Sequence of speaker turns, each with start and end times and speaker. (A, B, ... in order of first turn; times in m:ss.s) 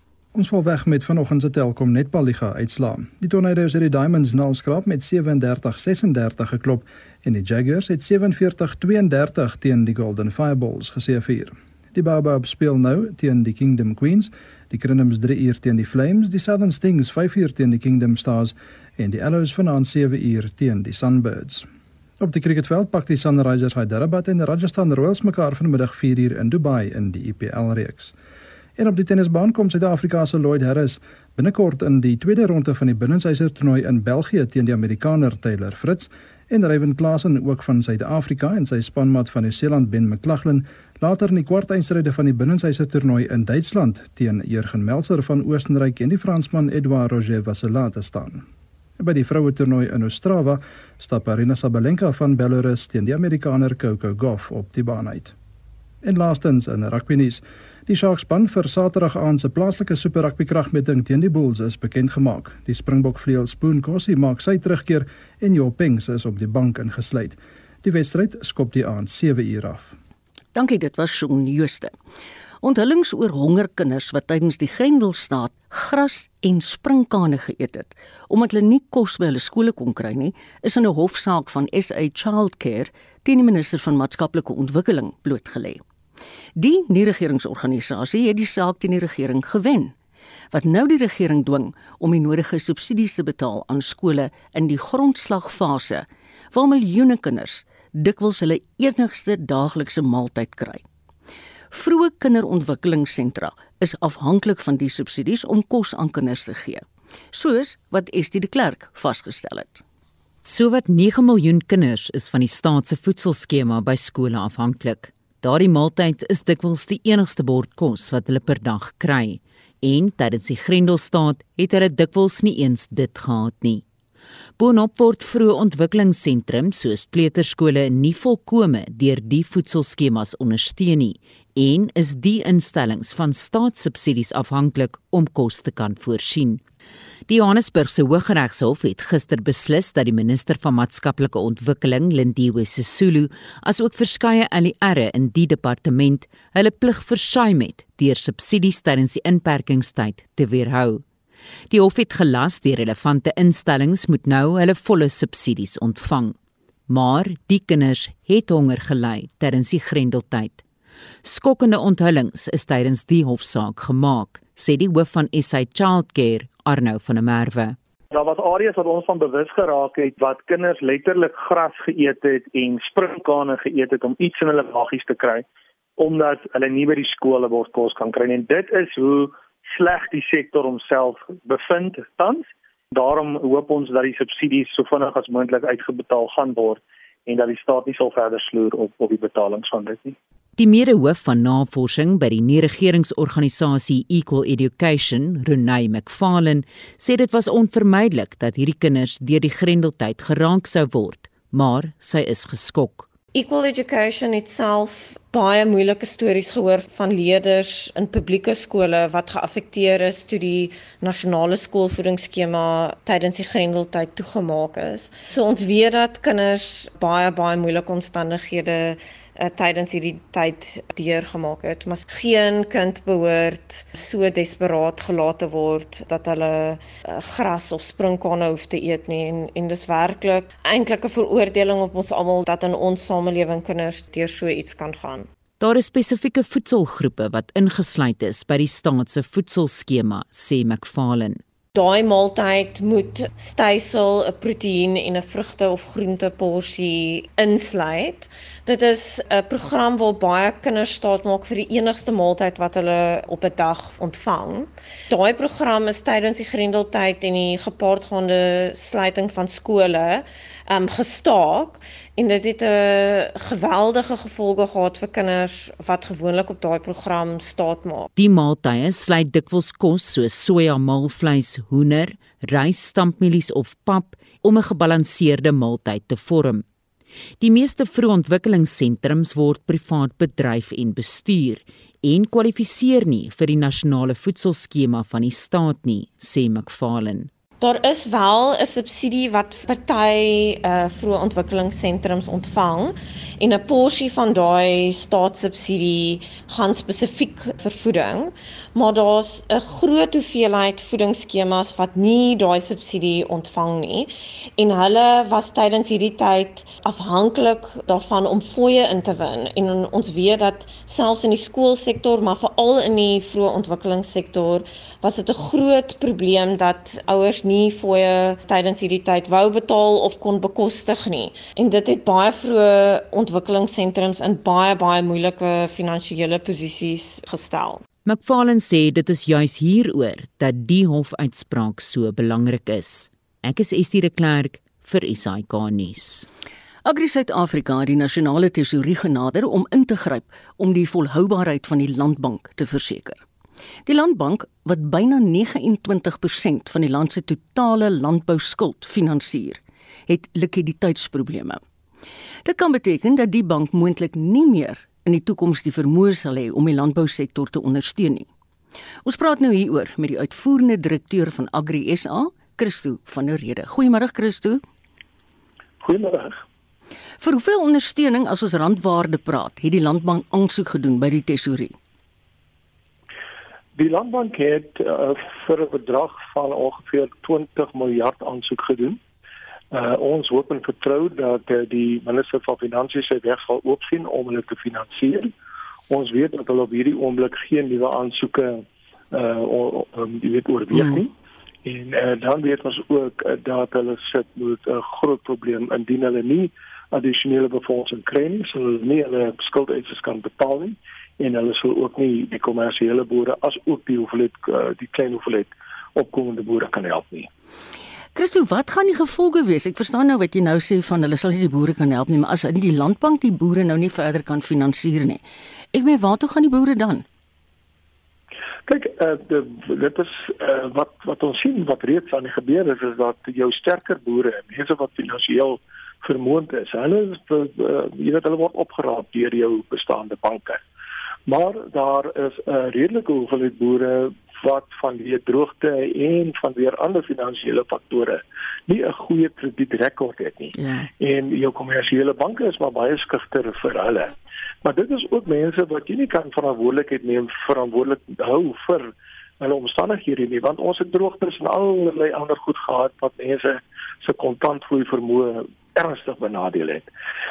0:00.3-0:21.7 A
0:22.2-0:28.1 A
0:28.8-0:48.4 A
0:49.0-0:55.3 A
0:56.0-1:10.0 A
1:10.6-1:11.9 B
1:12.6-1:25.8 B
1:26.6-1:29.9 B
1:30.5-1:40.8 B
1:41.7-1:49.8 B
1:50.4-2:03.8 C
2:04.6-2:16.6 C
2:17.3-2:31.0 C
2:31.7-2:36.4 C
2:36.9-2:40.6 C
2:41.2-2:47.8 C
2:48.1-2:55.4 D
2:56.0-3:10.2 D
3:10.6-3:23.1 C
3:23.3-3:55.3 E
3:55.6-4:01.4 C
4:01.7-4:28.1 E
4:28.2-4:36.6 C
4:37.4-4:47.3 C
4:47.6-5:27.8 E
5:28.1-5:36.3 C
5:36.8-5:43.2 B
5:43.9-5:51.6 B
5:52.4-5:58.3 B
5:59.0-6:04.6 B
6:05.8-6:06.4 F
6:07.2-6:11.8 B
6:13.8-6:19.0 F
6:19.7-6:25.3 F
6:25.9-6:31.1 F
6:30.7-6:31.0 B
6:31.6-6:47.3 F
6:48.2-6:55.2 B
6:55.7-6:57.0 B
6:58.7-7:10.6 F
7:11.3-7:36.9 F
7:20.6-7:20.9 B